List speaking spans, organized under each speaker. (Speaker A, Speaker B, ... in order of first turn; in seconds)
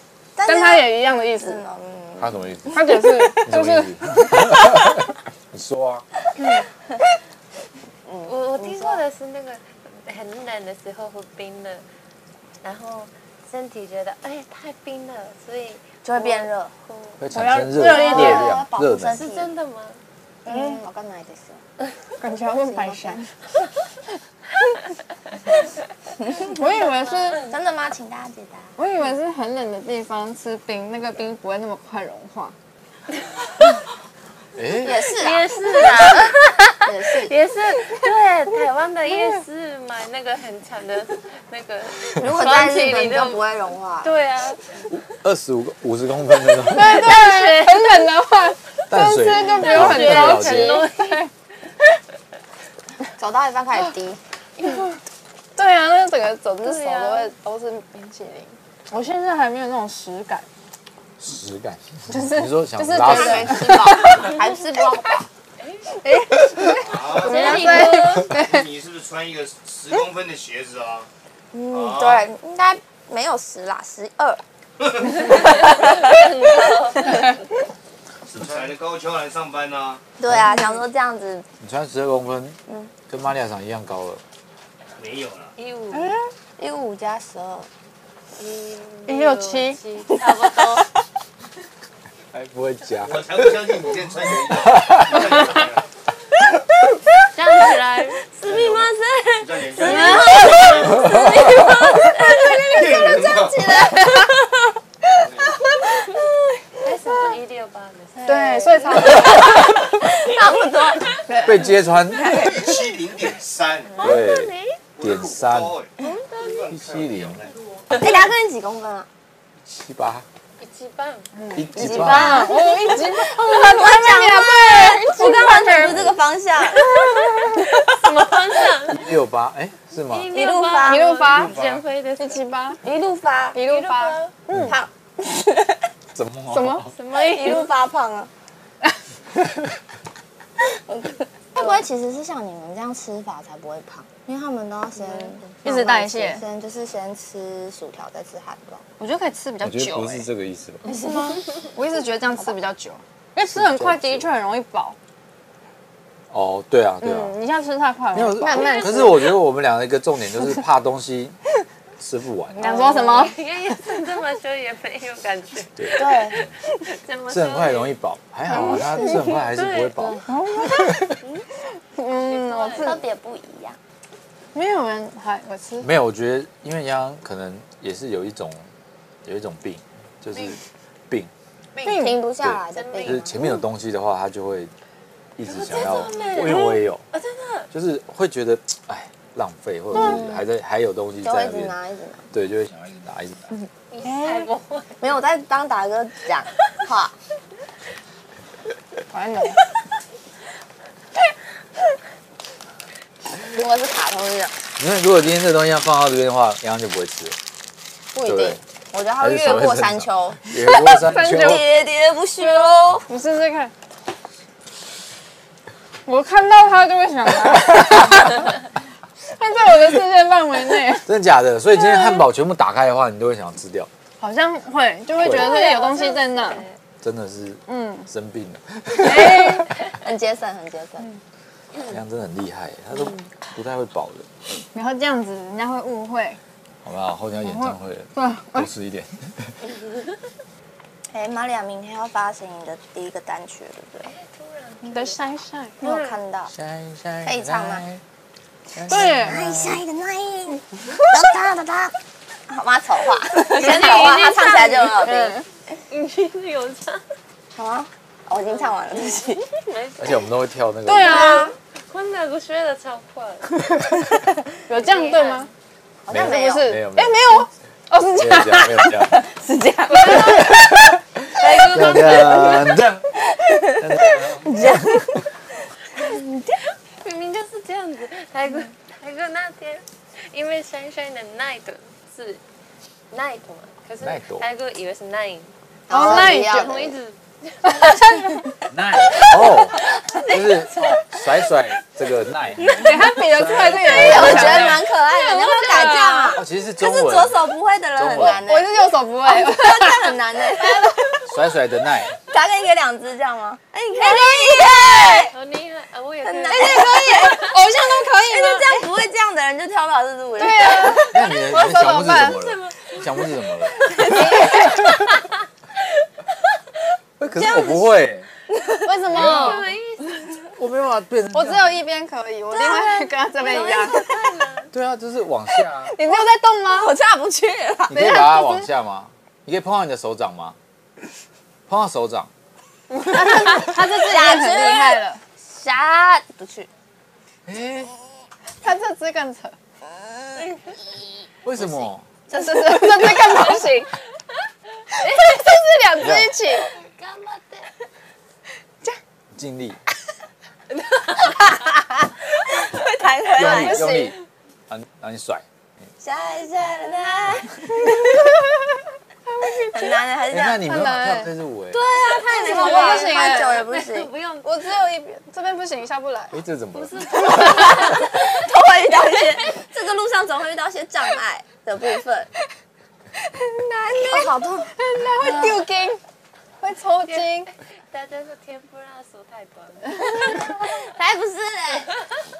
Speaker A: 0.4-2.9, 8.1-9.0, 16.0-16.8, 17.8-19.5, 20.4-21.6, 22.5-23.2, 27.4-28.8, 34.8-37.4, 42.1-44.1, 53.2-54.2, 62.9-65.3, 67.2-68.1, 71.5-74.4, 75.2-76.6, 80.2-81.5, 85.9-87.7, 90.3-90.8, 98.5-104.7, 105.7-107.3, 108.2-111.5, 112.1-112.7, 118.0-119.1, 121.7-126.9, 130.3-131.2, 132.8-133.6, 134.5-135.8, 137.1-138.3, 140.7-148.8, 150.8-151.6, 158.4-159.3, 162.6-163.3, 166.0-166.4, 168.6-169.1, 170.3-170.9, 172.7-173.8, 181.8-183.5, 189.9-190.5, 191.2-192.2, 195.0-197.1, 203.5-204.6, 208.2-213.1, 229.2-231.1, 241.1-244.1, 245.8-246.5, 247.2-247.8, 248.9-252.0, 252.5-255.4, 257.6-259.5, 261.1-261.5, 266.1-266.8, 269.1-270.7, 271.9-272.6, 273.3-275.3, 275.9-276.6, 285.9-286.9, 290.1-291.2, 292.7-293.0, 293.9-301.2, 302.1-305.3, 306.2-311.1, 313.9-314.7, 317.3-317.9, 318.5-319.6, 322.5-324.3, 326.1-328.2, 333.1-336.7, 339.9-341.2, 342.3-343.7, 352.5-354.1, 356.0-358.3, 359.6-360.7, 361.9-364.1, 367.1-372.3, 373.7-375.7, 380.3-381.9
Speaker B: 0.4-1.6, 2.7-4.9, 17.3-18.6, 20.5-20.9, 22.2-23.3, 26.4-27.5, 28.8-32.5, 46.6-51.3, 54.6-55.0, 55.6-60.5, 62.1-64.5, 65.9-68.7, 89.1-89.8, 99.8-100.7, 108.2-109.7, 111.3-111.8, 121.4-126.0, 126.8-127.7, 130.8-131.6, 132.2-132.8, 133.5-134.8, 136.5-136.9, 145.6-146.4, 149.0-150.3, 151.7-155.0, 157.0-158.5, 162.6-163.4, 170.4-171.0, 171.9-173.0, 174.5-175.9, 181.8-182.3, 193.5-194.5, 199.1-199.6, 210.8-211.7, 212.4-213.7, 216.1-218.6, 219.2-221.1, 221.9-222.2, 224.2-226.7, 227.7-228.1, 229.0-229.8, 234.7-236.4, 237.4-238.7, 244.8-245.8, 248.9-249.5, 255.0-255.4, 260.9-261.6, 264.7-265.5, 266.1-268.9, 285.9-286.8, 287.6-288.5, 292.7-296.4, 298.2-300.9, 304.0-304.9, 306.5-308.9, 310.4-312.4, 313.9-314.7, 318.8-319.7, 321.3-324.2, 325.8-326.9, 327.9-328.7, 332.9-335.2, 338.6-339.6, 342.3-343.9, 345.0-346.7, 357.9-358.4, 359.3-361.3, 362.4-363.7, 364.4-366.4, 373.3-376.0, 376.6-377.5
Speaker C: 2.2-6.1, 17.2-19.3, 34.5-35.1, 45.1-47.2, 48.9-50.9, 61.2-63.8, 80.3-80.5, 81.6-84.2, 92.3-93.8, 94.5-95.2, 111.4-112.5, 114.0-115.8, 116.7-117.4, 119.7-120.3, 121.5-122.5, 125.9-126.2, 128.9-130.3, 136.2-136.9, 149.6-150.8, 153.4-154.3, 156.3-157.4, 158.1-161.4, 162.0-162.7, 165.8-166.5, 167.3-170.2, 175.8-178.7, 179.2-181.3, 182.4-184.7, 185.4-187.1, 187.7-191.8, 192.3-193.5, 204.8-207.4, 208.2-208.6, 209.2-211.7, 217.6-218.2, 221.1-223.9, 225.2-225.6, 227.0-229.7, 231.9-234.6, 236.8-239.6, 246.5-248.0, 248.7-249.8, 260.0-261.4, 266.1-267.5, 268.1-269.2, 270.4-273.1, 273.7-275.2, 284.0-284.5, 288.7-294.9, 296.3-298.4, 301.3-302.1, 311.1-314.6, 317.2-318.3, 319.1-319.6, 320.6-321.9, 324.7-326.0, 327.9-330.6, 331.7-332.3, 337.5-337.9, 341.4-342.1, 346.0-346.4, 349.3-349.8, 353.3-354.2, 354.7-355.4, 360.3-361.8, 366.3-367.2
Speaker D: 8.3-11.8, 12.6-17.2, 19.2-20.0, 35.1-43.5, 44.0-44.6, 46.7-48.1, 49.4-51.3, 56.6-57.3, 65.6-65.9, 67.2-68.3, 75.2-77.4, 85.6-86.2, 88.4-90.9, 97.3-102.0, 106.8-109.4, 114.0-114.8, 116.0-116.7, 120.6-121.3, 126.9-129.1, 130.1-132.4, 133.6-134.3, 136.9-137.7, 141.6-141.8, 158.6-159.0, 163.0-168.0, 169.0-170.2, 172.1-173.0, 182.7-183.3, 185.4-187.7, 193.9-195.1, 225.2-226.8, 244.0-245.2, 245.8-246.2, 253.4-255.1, 255.9-257.0, 258.4-260.3, 261.2-263.6, 264.7-265.5, 269.9-270.8, 271.4-272.7, 277.0-282.4, 283.1-288.1, 305.3-307.4, 312.3-313.4, 314.1-315.3, 319.1-320.4, 323.4-324.7, 346.7-347.7, 350.9-351.4, 361.7-364.5, 366.7-368.4, 369.0-369.6, 377.1-380.8
Speaker E: 66.8-71.1, 71.7-72.3, 74.8-75.2, 78.3-80.0, 85.0-85.5, 93.0-95.9, 98.4-101.5, 102.6-103.8, 105.1-105.6, 112.3-114.1, 115.0-118.0, 131.3-131.8